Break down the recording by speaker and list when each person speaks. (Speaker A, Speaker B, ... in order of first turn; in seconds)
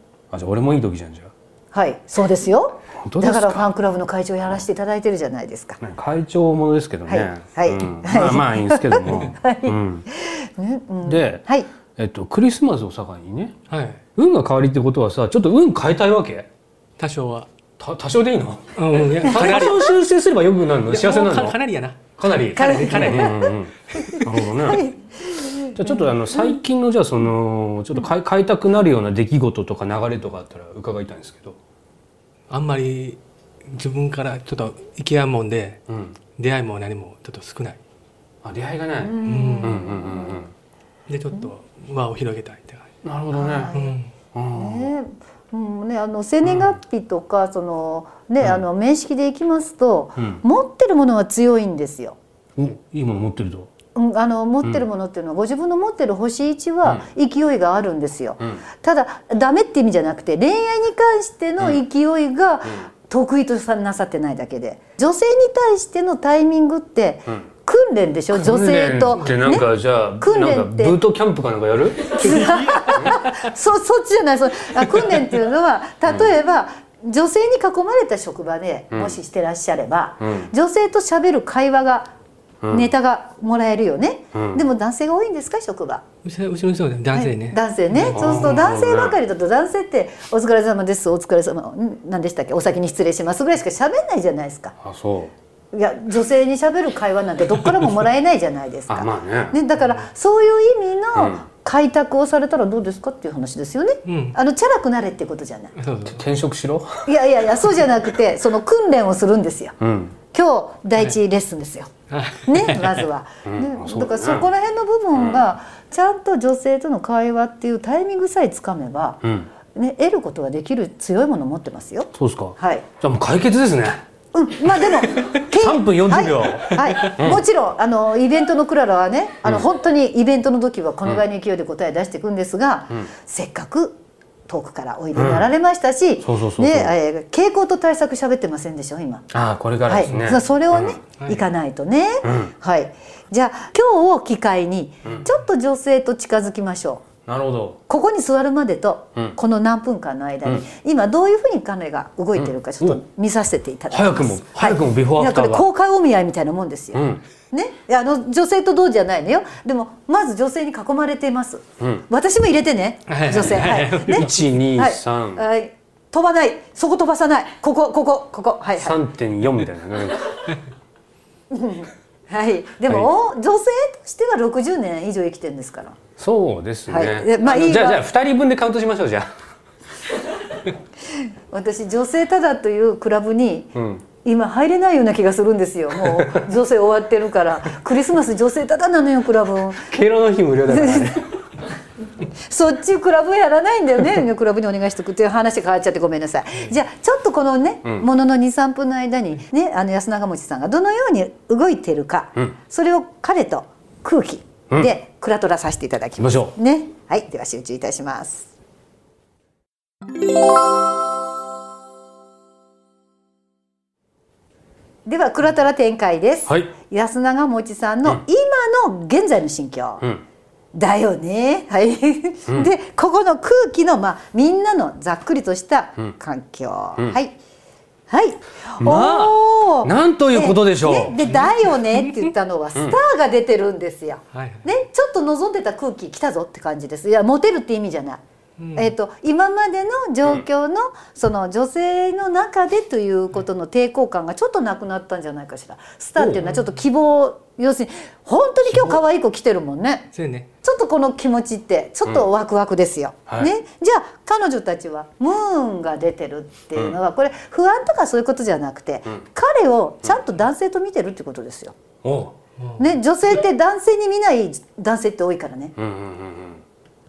Speaker A: 0.3-1.3, 2.9-3.7, 5.8-10.1, 11.0-11.4, 12.0-13.6, 14.2-16.5, 17.8-21.6, 22.2-24.9, 25.6-31.6, 35.9-36.1, 38.4-40.5, 43.0-43.7, 44.3-44.9, 52.6-53.7, 68.3-72.2, 78.9-79.2, 80.2-80.5, 82.6-82.9, 84.3-84.6, 88.1-89.2, 94.8-95.3, 98.9-99.6, 101.2-101.4, 106.1-107.1, 109.8-110.2, 113.5-114.5, 119.2-119.5, 122.1-124.0, 125.2-127.4, 135.2-135.5, 136.2-136.9, 139.3-141.0, 142.2-142.5, 147.3-147.8, 152.4-153.0, 153.9-155.7, 156.9-157.2, 161.8-162.1, 164.0-165.4, 168.8-170.5, 176.2-179.3, 183.8-184.0, 186.0-186.4, 189.9-191.3, 206.2-206.6, 216.5-216.7, 228.8-231.2, 253.3-253.5, 262.0-262.4, 265.8-266.6
Speaker B: 1.7-5.8, 7.1-11.7, 19.3-19.9, 22.6-26.6, 39.0-40.4, 43.3-44.0, 44.5-52.2, 54.0-71.0, 72.1-82.1, 82.7-86.0, 87.1-94.8, 95.7-105.7, 107.1-109.8, 110.3-111.9, 112.5-119.2, 119.7-122.9, 124.3-139.3, 139.9-147.1, 147.9-169.0, 171.5-176.0, 176.9-178.0, 181.5-189.9, 190.7-191.2, 192.4-208.5, 215.1-220.0, 220.7-227.3, 228.1-238.2, 238.8-250.1, 250.6-261.8, 262.8-265.8
Speaker C: 13.7-14.0, 17.0-17.5, 18.8-19.9, 20.9-23.4, 32.5-35.8, 36.4-37.8, 39.2-39.9, 41.1-42.9, 43.7-44.1, 72.3-72.8, 86.2-88.3, 104.1-104.4, 105.8-106.2, 112.1-113.1, 141.2-141.4, 163.1-164.3, 231.2-232.3, 234.3-234.7, 238.6-238.9, 246.4-246.7, 250.1-250.5